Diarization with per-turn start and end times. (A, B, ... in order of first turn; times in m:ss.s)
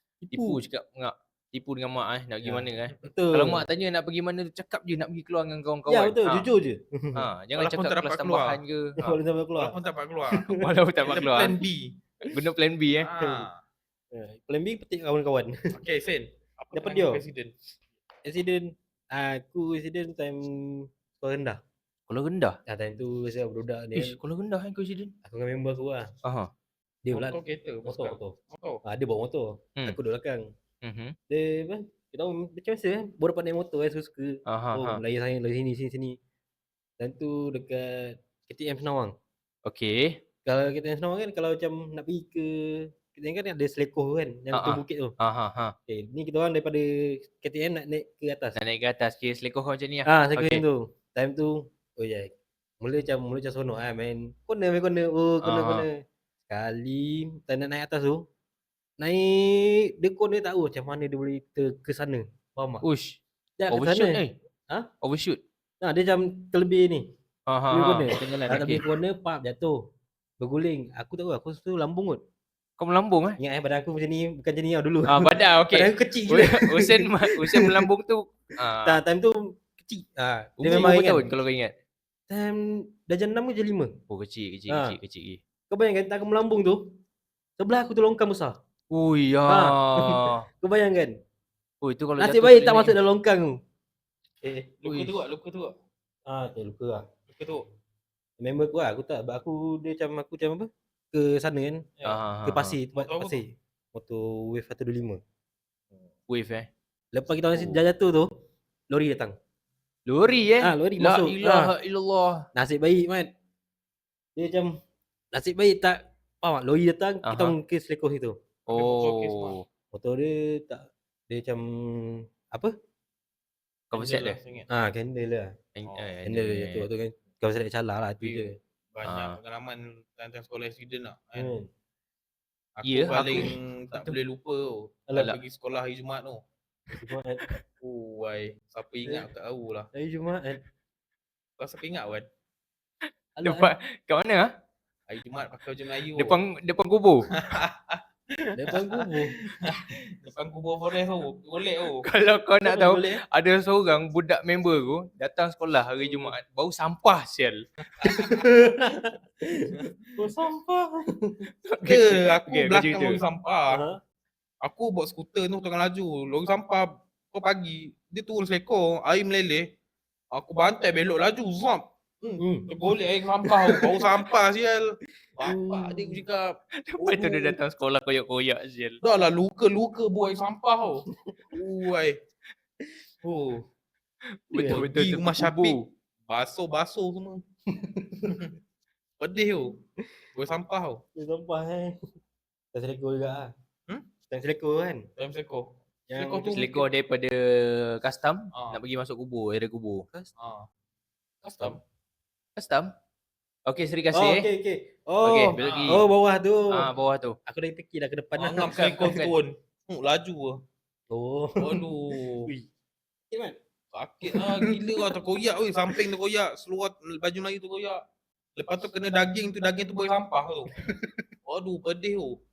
0:00.2-0:00.6 A
0:00.3-0:06.5 B
0:02.4-0:03.7 A
0:05.9-0:07.3 A
0:07.2-0:09.0 B
0:07.6-0:08.6 C
0:09.0-0:09.8 A
0:09.6-0:10.5 C
0:10.3-0:10.7 A
0:10.5-0:11.6 B
0:11.0-0:12.0 C
0:12.2-0:13.1 B
0:13.0-0:13.6 C
0:13.2-0:13.5 A
0:14.1-0:15.8 A
0:15.7-0:17.5 C
0:16.7-0:17.2 A
0:18.2-0:21.6 A
0:22.1-0:22.6 B
0:22.7-0:24.2 A
0:24.0-0:25.1 B
0:25.2-0:26.1 A
0:26.2-0:26.5 B
0:27.0-0:30.5 A
0:27.1-0:28.8 C
0:30.8-0:31.2 B
0:31.3-0:36.2 A
0:34.5-0:35.0 B
0:37.0-0:39.2 A
0:39.7-0:40.2 B
0:40.4-0:45.2 A
0:44.5-0:45.8 B
0:45.9-0:48.6 A
0:48.6-0:50.6 B
0:50.1-0:58.3 A
0:55.4-0:55.9 B
0:59.0-1:02.8 A
1:02.8-1:03.2 B
1:03.6-1:04.9 A
1:03.7-1:04.4 B
1:05.0-1:05.4 B
1:05.8-1:07.1 A
1:07.5-1:08.8 B
1:07.7-1:12.2 A
1:12.8-1:13.4 B
1:13.4-1:17.9 A
1:15.1-1:19.0 B
1:18.8-1:21.3 A
1:20.6-1:21.7 B
1:22.3-1:24.0 A
1:24.1-1:25.4 B
1:24.7-1:25.0 A
1:25.7-1:27.0 A
1:27.6-1:28.6 A
1:28.9-1:30.4 B
1:29.5-1:31.2 A
1:31.8-1:33.0 B
1:32.2-1:33.6 A
1:34.7-1:35.8 C
1:34.9-1:35.1 B
1:36.3-1:37.1 A
1:37.3-1:37.6 C
1:38.4-1:41.9 A
1:42.0-1:42.8 B
1:42.5-1:45.2 A
1:43.0-1:43.5 C
1:46.3-1:46.7 B
1:47.1-1:48.3 A
1:48.9-1:49.4 A
1:50.1-1:52.5 B
1:50.6-1:51.7 A
1:52.6-1:53.3 A
1:54.4-1:54.8 A
1:55.3-1:58.4 A
1:57.2-1:57.6 B
1:58.7-1:59.6 B
1:58.7-1:59.6 C
1:59.9-2:02.8 A
2:03.9-2:04.4 B
2:03.9-2:04.7 C
2:04.7-2:05.6 A
2:05.8-2:06.9 B
2:06.2-2:08.6 A
2:08.2-2:11.5 C
2:09.0-2:09.4 B
2:11.4-2:11.7 A
2:12.8-2:16.4 C
2:12.8-2:13.5 B
2:15.1-2:15.3 A
2:17.0-2:17.5 A
2:17.8-2:19.9 C
2:19.9-2:20.6 A
2:21.6-2:22.3 C
2:23.4-2:23.7 A
2:23.4-2:24.5 B
2:25.1-2:26.4 C
2:26.1-2:27.3 B
2:27.3-2:32.1 C
2:28.6-2:29.5 A
2:32.0-2:37.6 B
2:32.7-2:33.2 A
2:38.0-2:38.9 C
2:38.0-2:41.5 A
2:39.7-2:40.1 C
2:41.6-2:43.2 B
2:41.8-2:43.8 C
2:43.7-2:44.0 A
2:44.6-2:49.7 C
2:50.3-2:56.6 C
2:52.4-2:52.8 A
2:53.6-2:53.9 A
2:55.4-2:56.2 A
2:56.8-2:59.0 B
2:57.0-2:57.6 A
2:59.0-3:02.2 C
3:01.1-3:01.5 A
3:03.2-3:03.5 C
3:04.3-3:05.8 B
3:04.5-3:04.9 A
3:04.6-3:07.4 C
3:07.7-3:08.5 A
3:08.3-3:08.6 C
3:09.2-3:09.8 C
3:10.4-3:11.0 C
3:11.2-3:12.0 A
3:12.7-3:13.5 A
3:14.3-3:15.1 A
3:15.2-3:16.9 C
3:16.1-3:16.6 A
3:16.5-3:20.1 B
3:20.4-3:20.7 C
3:21.4-3:21.8 C
3:22.6-3:22.9 B
3:23.7-3:24.5 B
3:24.1-3:26.9 A
3:25.2-3:26.0 B
3:25.6-3:26.0 C
3:26.7-3:27.4 B
3:27.5-3:29.1 A
3:28.4-3:30.6 C
3:28.6-3:29.4 B
3:31.1-3:32.7 A
3:31.6-3:32.5 C
3:33.3-3:33.6 A
3:33.9-3:38.0 C
3:34.3-3:35.2 A
3:38.6-3:40.7 C
3:40.8-3:41.3 A
3:41.5-3:42.4 C